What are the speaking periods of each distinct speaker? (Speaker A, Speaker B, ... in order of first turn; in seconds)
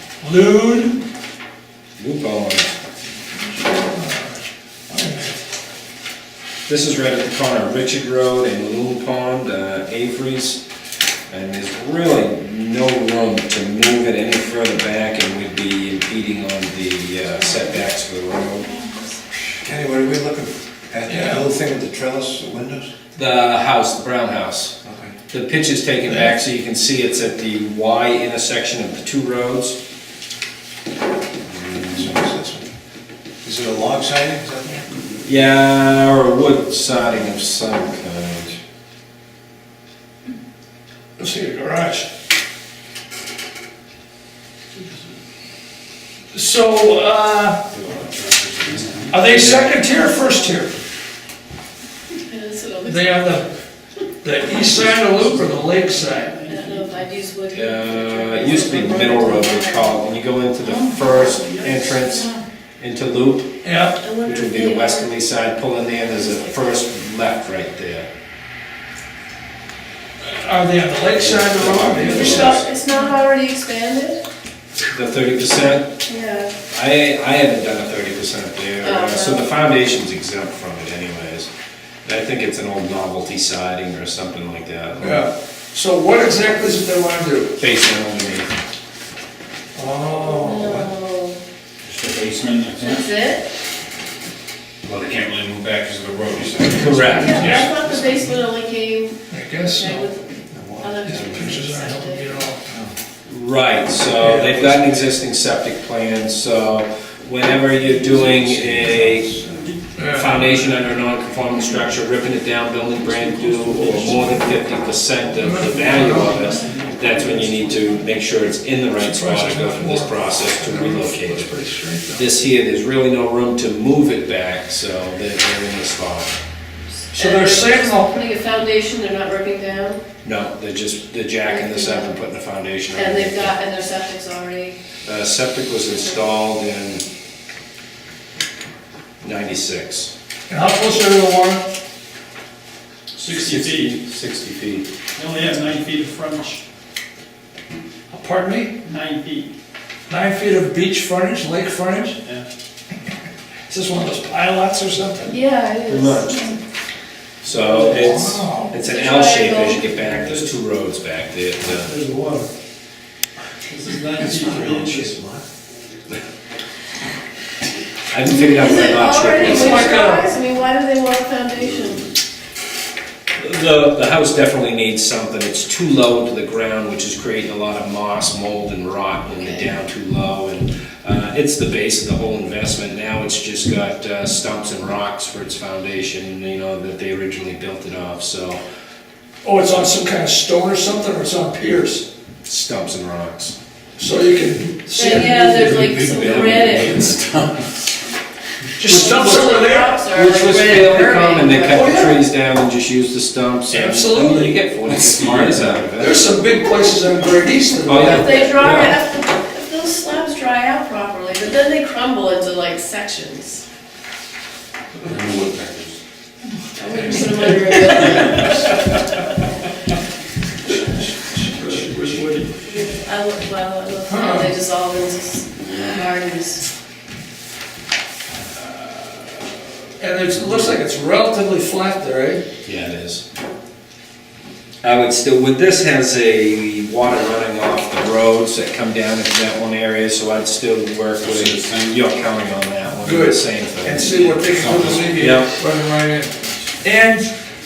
Speaker A: 0.2-1.0, 3.7-5.4, 21.1-21.5, 41.2-42.1, 46.3-47.7, 49.1-50.8, 52.9-53.5, 54.2-56.5, 63.6-64.0, 70.2-72.6, 85.0-87.5, 89.8-90.9, 97.4-97.8, 99.3-100.1, 101.1-102.6, 104.2-104.8, 110.0-110.4, 114.1-114.4, 115.4-116.6, 119.0-122.3, 127.1-128.1, 140.5-141.7, 148.1-148.8, 150.1-152.2, 153.7-155.4, 157.5-158.7, 161.8-162.5, 169.6-170.3, 189.4-192.1, 194.0-195.4, 198.8-200.0, 201.7-202.2, 203.7-204.6, 206.0-208.4, 221.5-222.2, 224.1-224.5, 230.0-232.4, 243.0-247.3
Speaker B: 2.0-2.8, 6.7-10.6, 11.3-18.7, 23.2-24.8, 25.3-29.8, 35.2-38.6, 57.5-63.5, 64.2-68.1, 71.2-72.7, 74.9-75.9, 76.7-81.5, 82.0-85.3, 87.6-88.5, 96.7-97.6, 103.3-109.3, 110.1-121.5, 122.1-126.3, 130.2-133.6, 135.1-137.1, 139.2-140.1, 143.2-144.9, 155.9-156.5, 157.4-161.9, 168.1-170.1, 173.3-188.6, 192.5-193.6, 196.1-197.1, 198.9-206.2, 207.9-209.0, 232.7-233.2, 234.8-244.1, 245.1-245.5
Speaker C: 19.6-22.9, 24.8-25.2, 31.5-32.7, 33.4-34.9, 100.5-101.6, 102.7-102.9, 107.8-109.7, 164.1-165.5
Speaker D: 47.7-49.5, 91.8-93.1, 94.8-97.6, 195.1-197.9, 204.8-206.2, 215.0-216.0, 241.2-242.0, 244.0-245.5
Speaker E: 49.9-50.3, 52.1-53.4, 56.5-60.0, 61.0-61.7, 64.0-65.1, 66.0-66.8, 72.1-74.2, 76.0-76.5, 78.8-79.5, 90.2-91.4, 92.8-93.5, 97.1-102.5, 127.1-130.0, 131.5-132.2, 132.9-134.8, 155.3-156.6, 158.6-159.9, 168.3-172.1, 179.4-179.7, 194.9-197.1, 198.9-202.2, 208.0-213.6, 216.8-219.2, 222.7-226.7
Speaker F: 55.8-56.9, 108.7-110.9, 113.1-118.4, 143.3-143.9, 145.2-146.6, 148.8-149.5, 159.9-160.5, 163.7-165.1, 221.7-222.5